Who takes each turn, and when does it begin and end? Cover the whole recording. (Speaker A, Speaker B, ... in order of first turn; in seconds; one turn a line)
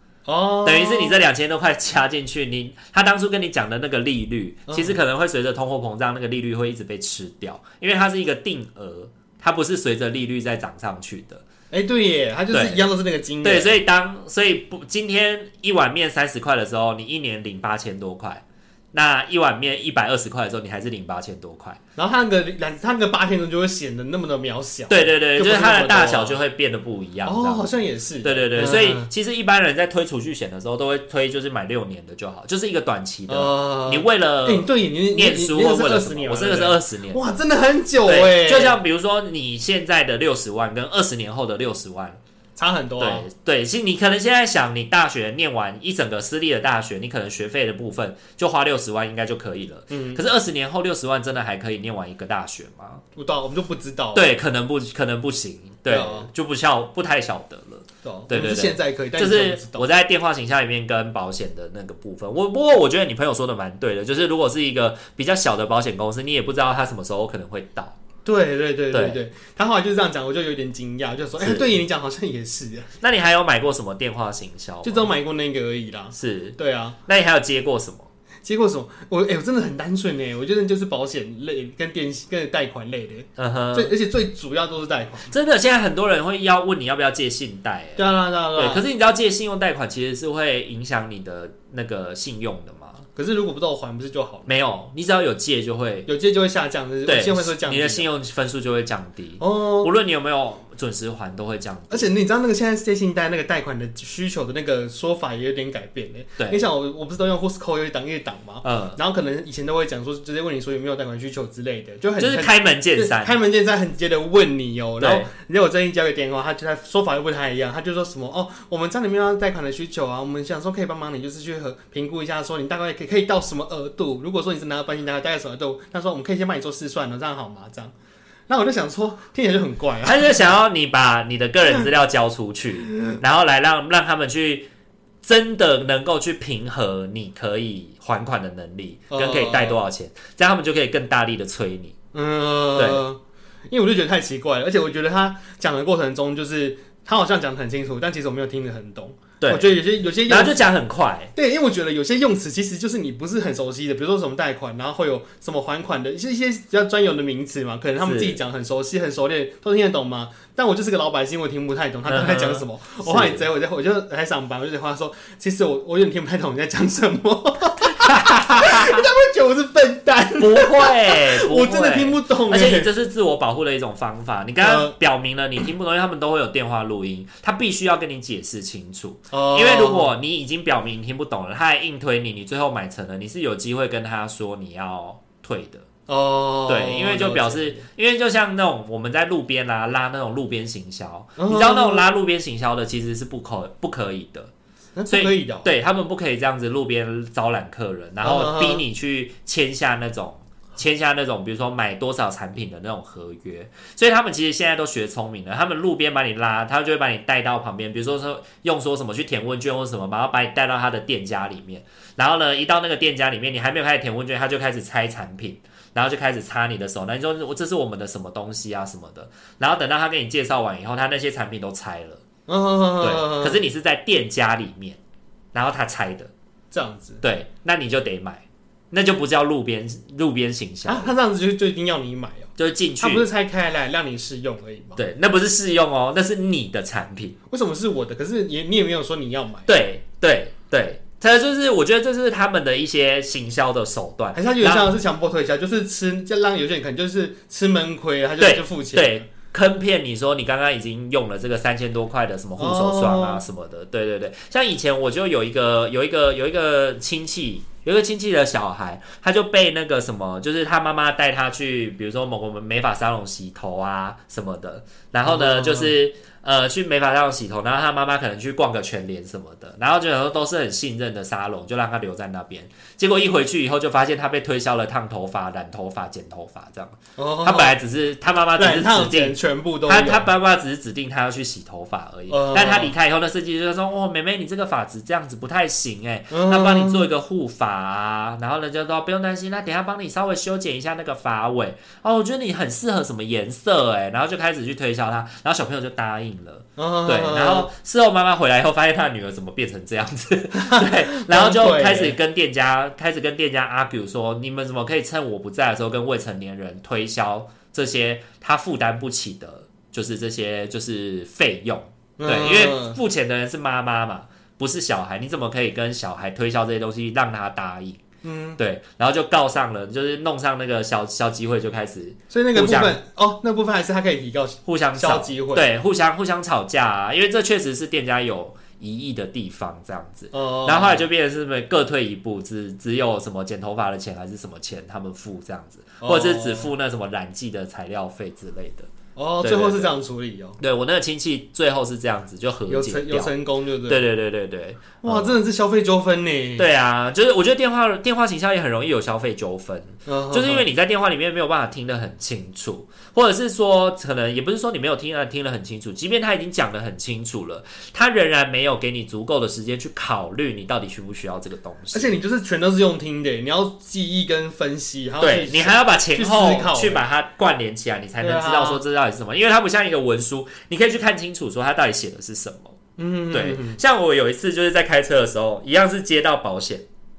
Speaker A: 0.3-1.2
Speaker B: 0.6-11.4
Speaker A: 4.7-5.0
Speaker A: 11.7-13.8
Speaker B: 12.5-12.9
Speaker B: 13.4-21.8
Speaker A: 22.0-26.4
Speaker B: 24.9-37.2
Speaker A: 27.2-29.1
Speaker A: 33.3-38.8
Speaker B: 38.1-42.2
Speaker A: 42.6-43.3
Speaker B: 43.0-53.0
Speaker A: 49.9-50.2
Speaker A: 53.2-54.3
Speaker B: 54.1-68.0
Speaker A: 55.9-56.3
Speaker A: 58.0-59.9
Speaker A: 68.2-72.9
Speaker B: 68.9-69.2
Speaker B: 71.4-71.8
Speaker B: 73.0-75.1
Speaker A: 74.8-77.0
Speaker B: 76.2-78.1
Speaker A: 78.4-85.3
Speaker B: 83.4-84.0
Speaker B: 85.3-93.0
Speaker A: 88.0-88.8
Speaker A: 93.2-94.5
Speaker B: 94.5-96.1
Speaker A: 96.1-98.1
Speaker B: 97.1-102.1
Speaker A: 99.4-99.9
Speaker A: 101.9-127.9
Speaker B: 106.4-106.7
Speaker B: 108.6-109.0
Speaker B: 112.2-113.4
Speaker B: 115.0-115.3
Speaker A: 128.5-130.4
Speaker B: 130.0-134.7
Speaker B: 135.2-142.0
Speaker A: 139.1-139.8
Speaker A: 142.1-150.7
Speaker B: 142.8-143.0
Speaker B: 149.4-149.7
Speaker B: 150.3-151.3
Speaker A: 151.3-172.9
Speaker B: 158.0-158.4
Speaker B: 162.1-163.4
Speaker B: 168.0-169.1
Speaker B: 170.4-185.9
Speaker A: 174.6-174.9
Speaker A: 179.3-180.1
Speaker A: 186.1-187.8
Speaker B: 186.7-194.5
Speaker A: 191.4-192.1
Speaker A: 195.0-195.7
Speaker B: 195.1-222.2
Speaker A: 198.2-198.8
Speaker A: 222.5-223.6
Speaker B: 223.0-225.0
Speaker B: 225.5-226.3
Speaker A: 226.7-227.2
Speaker B: 227.2-231.1
Speaker A: 230.9-235.0
Speaker B: 232.6-233.3
Speaker B: 235.0-237.4
Speaker A: 237.5-239.7
Speaker B: 239.7-244.9
Speaker A: 244.3-249.2
Speaker B: 248.4-318.0
Speaker A: 252.6-253.4
Speaker A: 265.2-265.9
Speaker A: 277.2-277.8
Speaker A: 278.6-280.3
Speaker A: 282.3-282.9
Speaker A: 286.3-287.1
Speaker A: 296.8-297.7
Speaker A: 300.6-302.2
Speaker A: 312.2-313.0
Speaker A: 318.2-318.6
Speaker B: 318.6-323.0
Speaker A: 322.3-325.7
Speaker B: 324.6-338.9
Speaker A: 330.3-331.1
Speaker A: 336.0-336.7
Speaker A: 339.2-340.6
Speaker B: 339.4-339.9
Speaker B: 340.6-343.3
Speaker A: 342.7-344.0
Speaker B: 343.9-345.4
Speaker A: 345.0-346.6
Speaker B: 346.6-362.2
Speaker A: 350.1-350.6
Speaker A: 361.9-367.0
Speaker B: 365.2-372.8
Speaker A: 368.2-368.8
Speaker A: 373.0-373.8
Speaker B: 373.3-376.9